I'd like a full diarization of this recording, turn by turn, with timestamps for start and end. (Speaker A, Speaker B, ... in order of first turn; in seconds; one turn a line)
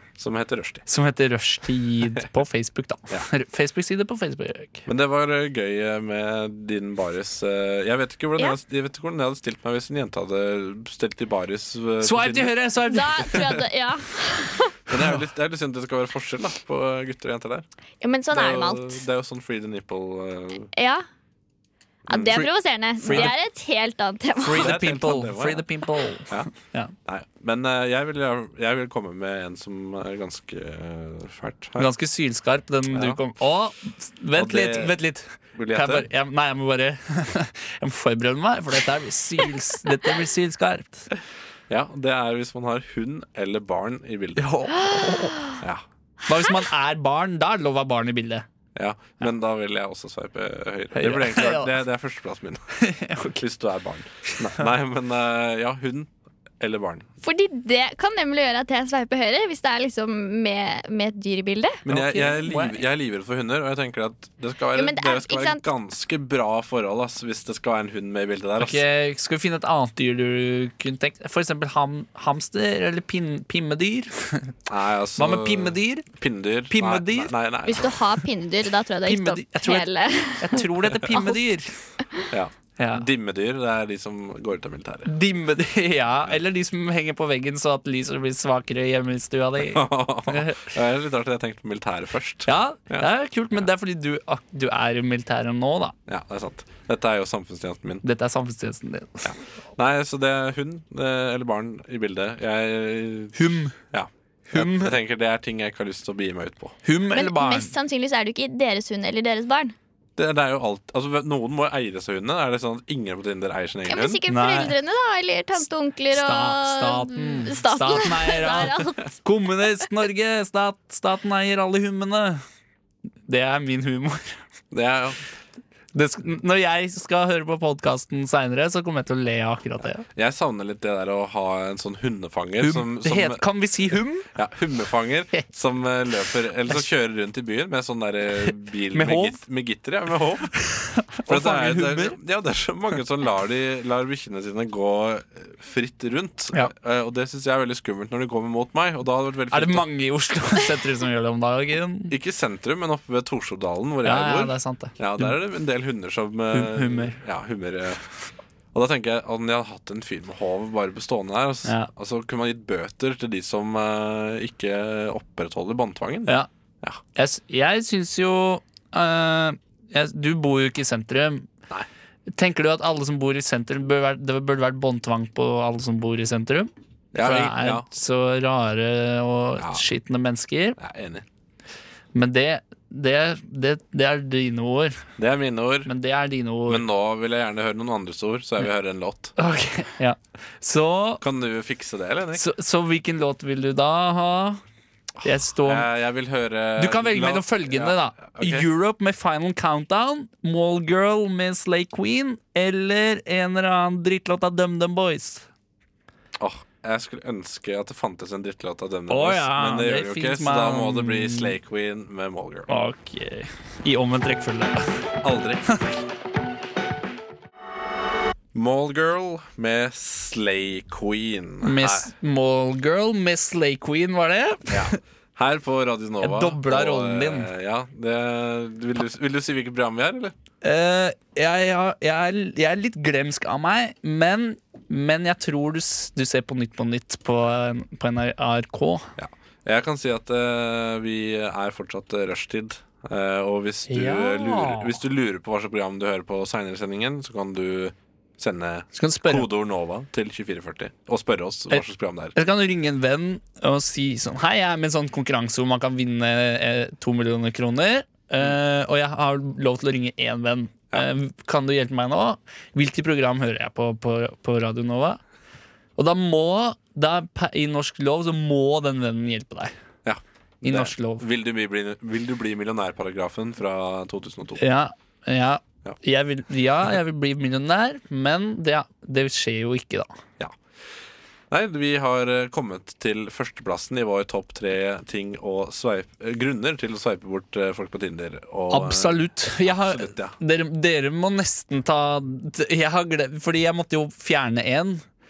Speaker A: 0.2-0.8
Speaker B: 0.9-4.8
Speaker A: 4.8-12.6
Speaker B: 12.0-13.6
Speaker C: 12.9-14.8
Speaker A: 14.9-17.6
Speaker C: 18.0-19.0
Speaker A: 18.3-20.7
Speaker C: 20.7-21.0
Speaker C: 22.1-24.7
Speaker A: 22.1-22.4
Speaker B: 22.3-23.3
Speaker A: 23.1-23.3
Speaker B: 24.4-26.9
Speaker A: 24.5-25.6
Speaker A: 27.0-31.9
Speaker B: 31.8-41.1
Speaker A: 32.9-33.2
Speaker A: 34.3-35.0
Speaker A: 35.5-36.1
Speaker A: 41.7-44.5
Speaker B: 44.4-45.4
Speaker B: 46.3-48.5
Speaker A: 48.7-52.6
Speaker B: 50.9-51.7
Speaker B: 52.8-53.4
Speaker A: 53.4-57.0
Speaker B: 54.3-54.6
Speaker C: 57.2-61.8
Speaker A: 61.9-68.8
Speaker B: 61.9-62.8
Speaker C: 64.7-65.6
Speaker B: 68.6-74.5
Speaker A: 74.7-78.0
Speaker B: 75.2-76.0
Speaker B: 76.7-77.3
Speaker C: 77.7-81.3
Speaker B: 79.0-79.9
Speaker B: 80.4-81.7
Speaker A: 82.3-85.1
Speaker B: 82.8-83.0
Speaker B: 85.0-90.7
Speaker A: 89.6-93.1
Speaker B: 92.5-95.9
Speaker A: 96.1-98.0
Speaker B: 98.0-99.3
Speaker A: 99.2-103.4
Speaker B: 103.3-103.8
Speaker A: 103.9-106.8
Speaker B: 104.5-104.9
Speaker B: 106.8-107.7
Speaker C: 107.1-109.7
Speaker A: 110.2-114.2
Speaker C: 113.9-119.1
Speaker B: 114.3-114.7
Speaker B: 115.6-122.4
Speaker B: 123.3-124.3
Speaker A: 124.7-125.2
Speaker B: 125.9-130.1
Speaker A: 130.0-133.4
Speaker B: 132.6-134.3
Speaker A: 134.3-140.5
Speaker B: 138.9-139.4
Speaker B: 140.6-142.2
Speaker A: 141.2-149.8
Speaker B: 149.5-152.1
Speaker A: 152.1-158.0
Speaker B: 154.0-155.3
Speaker B: 156.5-157.2
Speaker A: 158.7-167.0
Speaker B: 161.6-161.9
Speaker B: 167.2-171.5
Speaker B: 172.3-180.8
Speaker A: 177.1-177.9
Speaker A: 179.6-179.8
Speaker A: 180.8-181.2
Speaker B: 182.1-185.0
Speaker A: 185.2-185.9
Speaker B: 185.8-186.8
Speaker A: 186.7-189.3
Speaker B: 189.3-191.2
Speaker A: 191.2-192.4
Speaker B: 192.3-194.6
Speaker A: 195.2-198.7
Speaker B: 195.2-195.9
Speaker B: 196.8-205.4
Speaker A: 206.4-212.7
Speaker B: 209.1-211.6
Speaker B: 212.7-214.9
Speaker A: 215.2-215.8
Speaker B: 215.7-215.9
Speaker A: 218.5-222.1
Speaker B: 221.6-225.0
Speaker A: 224.7-230.3
Speaker B: 226.2-227.5
Speaker B: 230.6-239.1
Speaker A: 239.2-252.3
Speaker B: 243.9-245.0
Speaker B: 248.9-249.5
Speaker B: 251.7-265.2
Speaker B: 266.0-269.7
Speaker A: 270.0-274.6
Speaker B: 270.6-271.2
Speaker B: 274.6-280.1
Speaker A: 281.5-290.4
Speaker B: 288.7-295.0